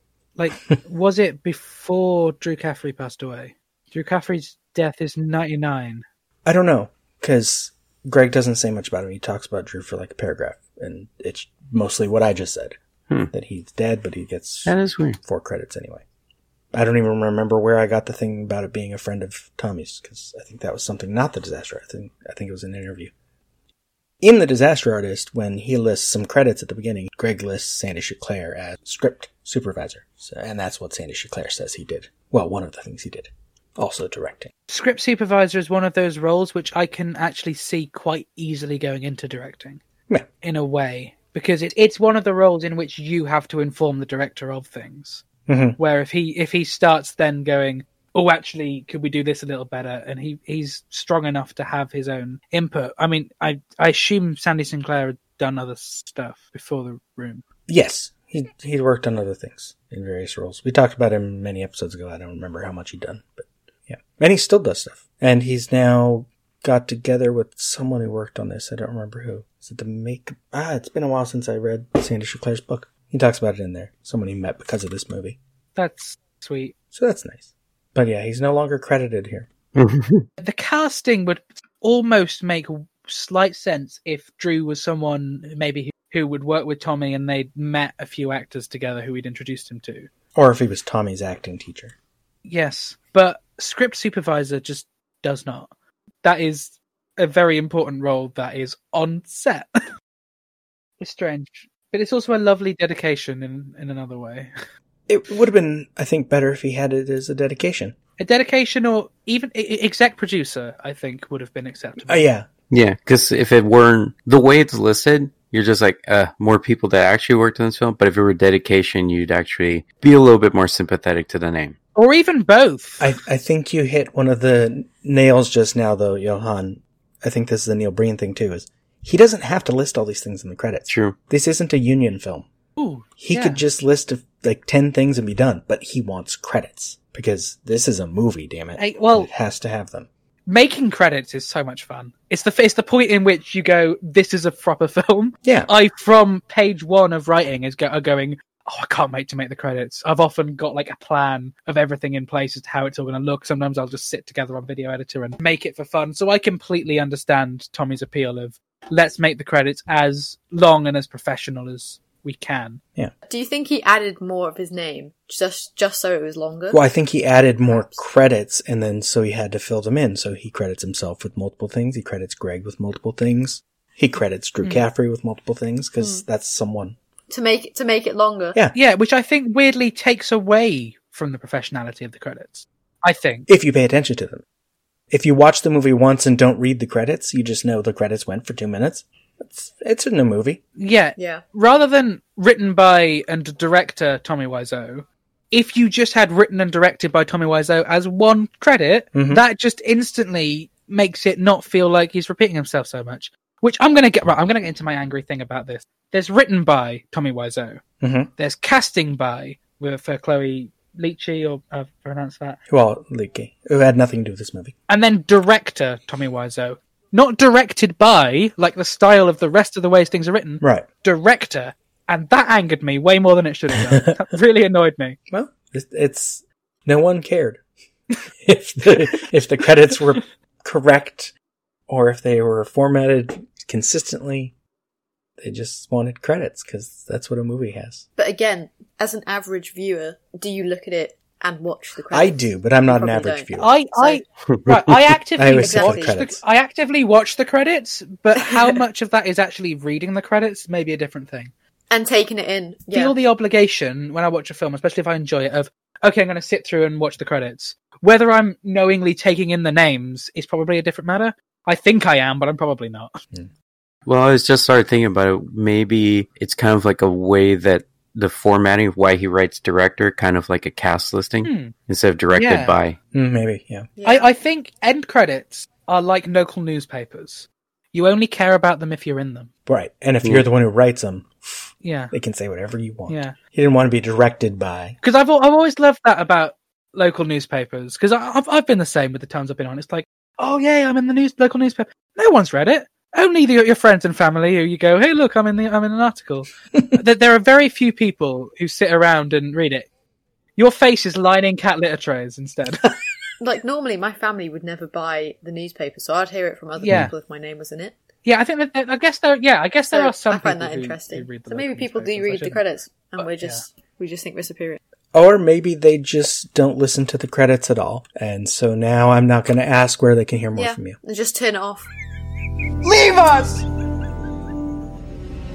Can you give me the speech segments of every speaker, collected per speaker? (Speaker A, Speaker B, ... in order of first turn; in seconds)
Speaker A: 0.3-6.0, 34.7-39.8, 40.4-45.2, 45.8-57.4, 75.8-76.7, 80.4-90.1, 92.4-95.7, 96.2-99.7, 101.0-104.5, 108.2-112.3, 121.9-123.1, 132.8-133.6, 138.8-139.3, 140.5-162.8, 178.7-183.5, 190.8-207.8, 208.4-212.6, 214.9-225.2, 243.6-251.5, 252.9-263.1, 271.4-271.7, 272.4-272.7, 274.0-279.5, 281.8-282.1, 283.1-283.4, 285.0-299.9, 300.6-302.9, 306.8-307.1, 308.2-312.6, 313.2-313.6, 322.8-323.6
Speaker B: 6.4-12.8, 13.3-16.0, 16.7-23.1, 24.2-34.5, 45.5-45.8, 57.7-75.4, 76.9-79.5, 90.3-91.9, 105.1-107.9, 112.0-112.5, 123.0-132.5, 133.2-140.1, 145.4-145.7, 166.7-177.0, 183.5-184.4, 185.1-190.6, 199.1-199.4, 208.0-208.3, 212.7-214.7, 220.6-220.8, 223.7-224.2, 225.3-227.6, 228.4-231.3, 231.9-234.5, 235.4-238.0, 242.1-243.7, 245.4-246.4, 273.1-273.9, 279.7-284.9, 315.1-321.0
Speaker C: 14.7-15.2, 79.7-80.2, 112.7-121.8, 130.9-131.2, 244.5-244.7, 264.1-273.0
Speaker D: 163.3-166.8, 167.7-168.0, 176.0-176.2, 177.3-178.6, 191.2-191.4, 238.2-244.2, 245.5-246.2, 251.9-253.2, 274.0-274.3, 303.4-307.9, 309.9-314.8, 320.5-321.9